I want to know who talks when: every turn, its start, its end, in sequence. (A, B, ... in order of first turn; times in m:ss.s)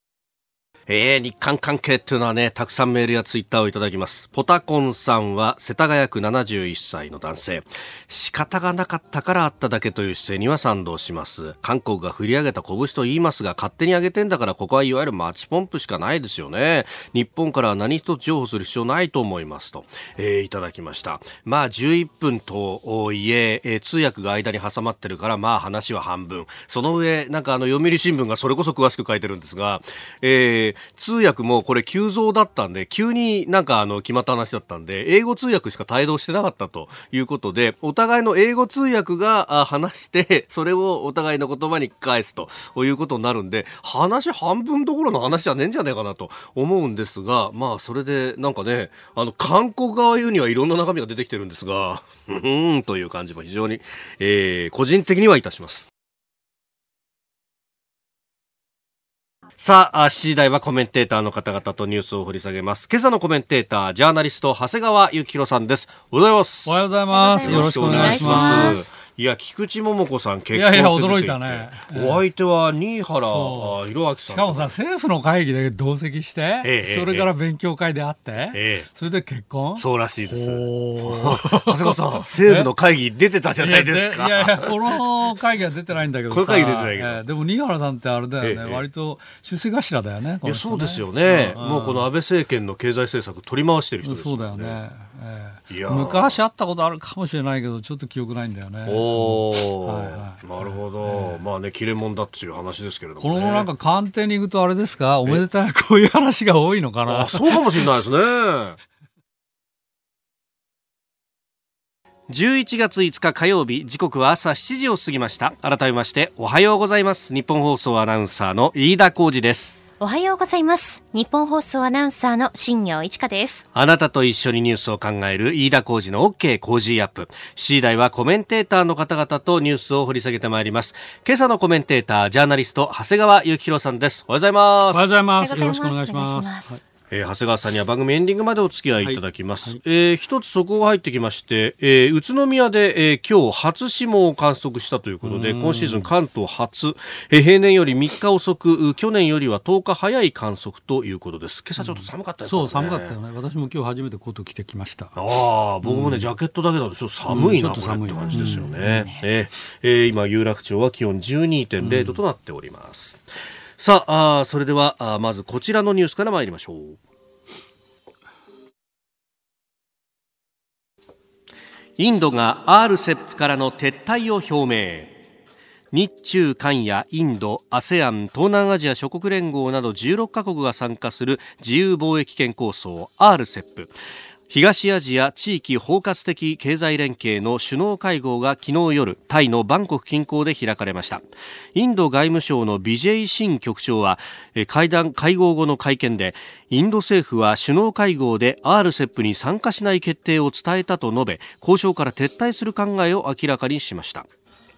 0:00.9-0:55.9 A
0:59.6-1:06.9 A
1:06.6-1:08.9 B
1:07.1-1:08.9 C
1:07.4-1:14.7 A
1:10.5-1:12.2 B
1:13.3-1:13.8 B
1:14.3-1:22.7 B
1:16.6-1:17.3 A
1:18.5-1:18.9 A
1:19.8-1:25.0 A
1:23.6-1:32.1 B
1:26.3-1:27.2 A
1:28.4-1:28.8 A
1:30.4-1:34.8 A
1:34.0-1:41.4 B
1:35.7-1:36.4 A
1:38.8-1:43.7 A
1:43.2-1:47.9 B
1:47.0-1:48.8 A
1:52.3-1:59.8 A
2:00.0-2:03.6 C
2:03.7-2:15.1 A
2:14.9-2:16.8 B
2:15.4-2:16.8 C
2:17.1-2:33.2 A
2:19.0-2:19.8 B
2:25.2-2:26.1 B
2:31.8-2:35.2 B
2:35.1-2:43.2 A
2:35.8-2:36.3 B
2:37.3-2:39.2 B
2:41.8-2:42.2 B
2:43.8-2:47.0 A
2:52.0-2:55.2 A
2:55.9-3:03.9 A
3:04.5-3:11.2 A
3:11.7-3:24.3 A